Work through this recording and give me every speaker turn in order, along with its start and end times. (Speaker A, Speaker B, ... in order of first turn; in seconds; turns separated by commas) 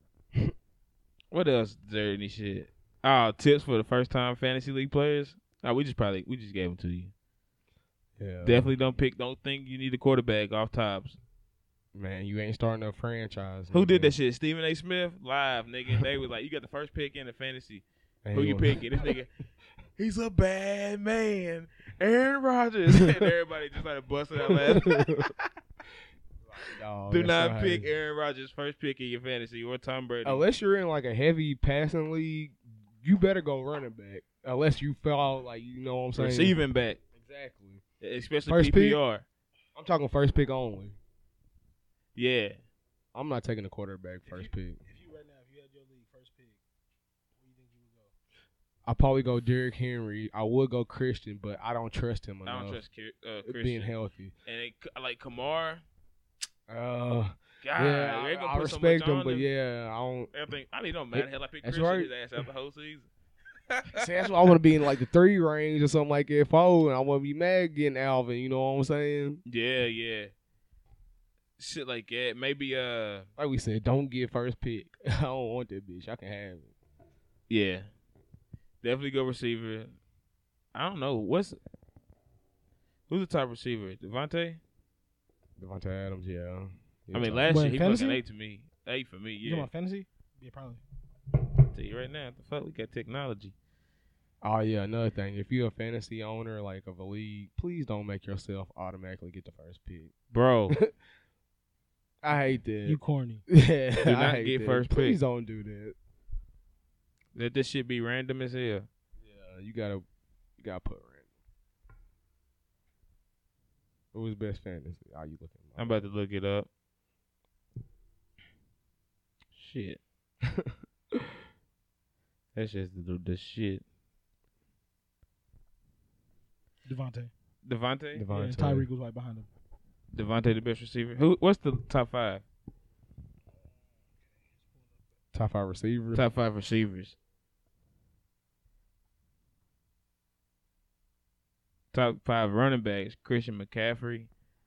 Speaker A: 1.3-7.1, Speaker B: 8.2-8.7, Speaker A: 8.4-11.2, Speaker B: 11.9-14.1, Speaker A: 13.7-19.3, Speaker B: 18.2-19.1, Speaker A: 20.0-25.5, Speaker B: 24.4-25.3, Speaker B: 26.5-27.9, Speaker A: 27.1-30.4, Speaker B: 30.2-36.6, Speaker A: 36.1-37.0, Speaker B: 37.1-37.8, Speaker A: 38.0-39.2, Speaker B: 38.5-39.0, Speaker B: 39.7-41.0, Speaker A: 42.1-42.6, Speaker B: 43.1-44.8, Speaker C: 44.2-46.6, Speaker C: 47.4-48.1, Speaker B: 48.9-52.8, Speaker A: 52.4-53.9, Speaker B: 53.4-54.3, Speaker A: 54.5-55.8, Speaker B: 56.7-60.3, Speaker A: 57.6-59.5, Speaker A: 60.3-63.1, Speaker B: 61.1-62.1, Speaker A: 63.7-64.5, Speaker B: 63.9-69.4, Speaker A: 69.5-70.3, Speaker A: 71.6-73.3, Speaker B: 73.4-76.7, Speaker A: 77.5-77.9, Speaker A: 78.8-80.0, Speaker A: 80.7-81.6, Speaker A: 83.1-84.6, Speaker B: 85.6-87.5, Speaker A: 87.1-89.7, Speaker C: 87.5-88.2, Speaker C: 89.4-90.8, Speaker A: 91.7-93.5, Speaker B: 94.4-100.1, Speaker A: 100.3-100.8, Speaker B: 102.2-106.0, Speaker C: 102.8-103.4, Speaker A: 104.0-105.2, Speaker A: 107.3-108.9, Speaker B: 109.2-110.0, Speaker B: 110.6-111.2, Speaker B: 114.1-116.0, Speaker A: 115.8-116.7, Speaker A: 119.5-120.0, Speaker A: 122.5-123.8, Speaker C: 126.9-127.3, Speaker A: 127.6-128.2, Speaker B: 128.1-128.9, Speaker C: 128.3-129.5, Speaker A: 130.1-132.4, Speaker C: 134.3-134.7, Speaker B: 135.3-136.2, Speaker A: 136.1-137.2, Speaker A: 141.9-144.3